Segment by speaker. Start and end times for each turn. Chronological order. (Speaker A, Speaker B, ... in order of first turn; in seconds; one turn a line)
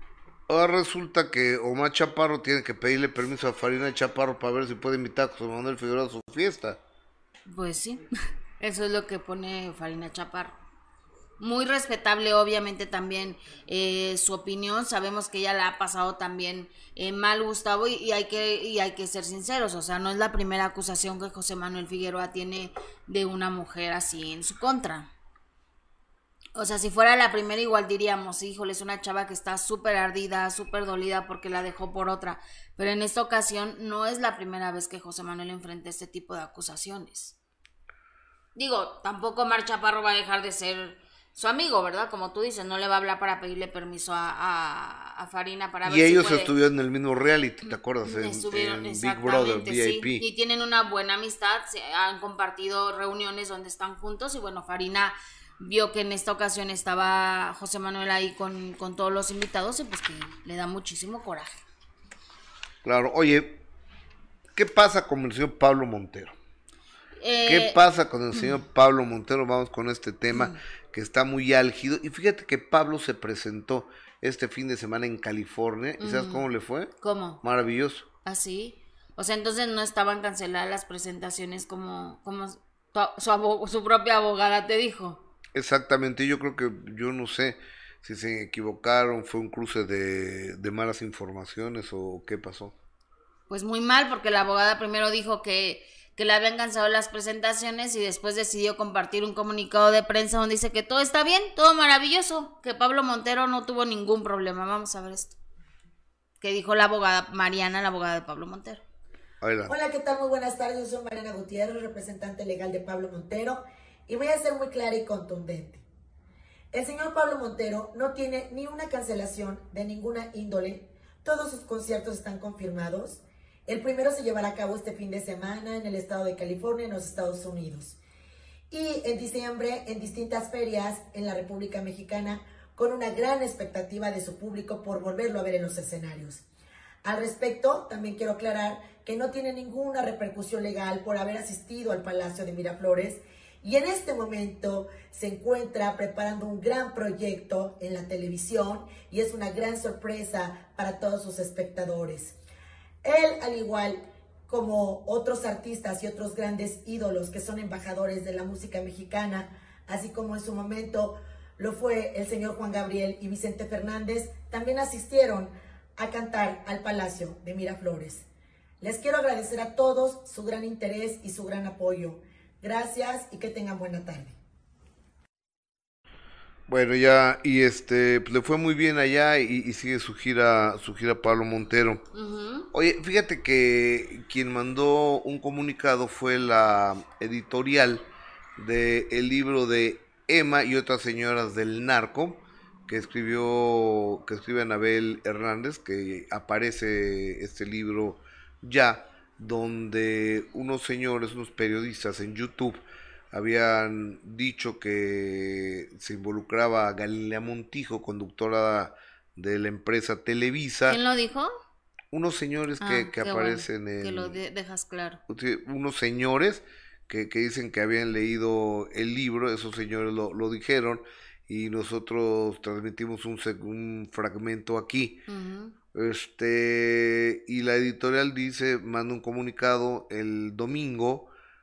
Speaker A: 0.5-6.8
Speaker B: 7.5-8.1
Speaker B: 8.6-10.6
Speaker B: 11.4-25.1
Speaker B: 26.6-37.3
Speaker B: 38.5-46.5
Speaker A: 45.8-50.2
Speaker B: 48.0-61.6
Speaker A: 62.8-63.6
Speaker A: 64.5-66.3
Speaker B: 67.2-67.8
Speaker A: 67.5-78.1
Speaker B: 70.3-70.6
Speaker B: 76.0-76.4
Speaker B: 77.0-77.4
Speaker B: 78.2-85.2
Speaker A: 85.5-92.7
Speaker B: 93.5-105.3
Speaker B: 106.4-108.8
Speaker A: 109.4-109.7
Speaker C: 109.7-115.8
Speaker C: 116.7-128.0
Speaker C: 128.7-136.4
Speaker C: 137.0-152.4
Speaker C: 153.0-168.2
Speaker C: 168.8-174.3
Speaker A: 176.7-182.0
Speaker B: 182.1-182.7
Speaker A: 182.7-202.8
Speaker A: 203.3-211.0
Speaker B: 210.9-211.5
Speaker A: 212.1-214.4
Speaker B: 212.8-215.2
Speaker A: 215.3-225.2
Speaker B: 225.3-225.7
Speaker A: 225.9-231.3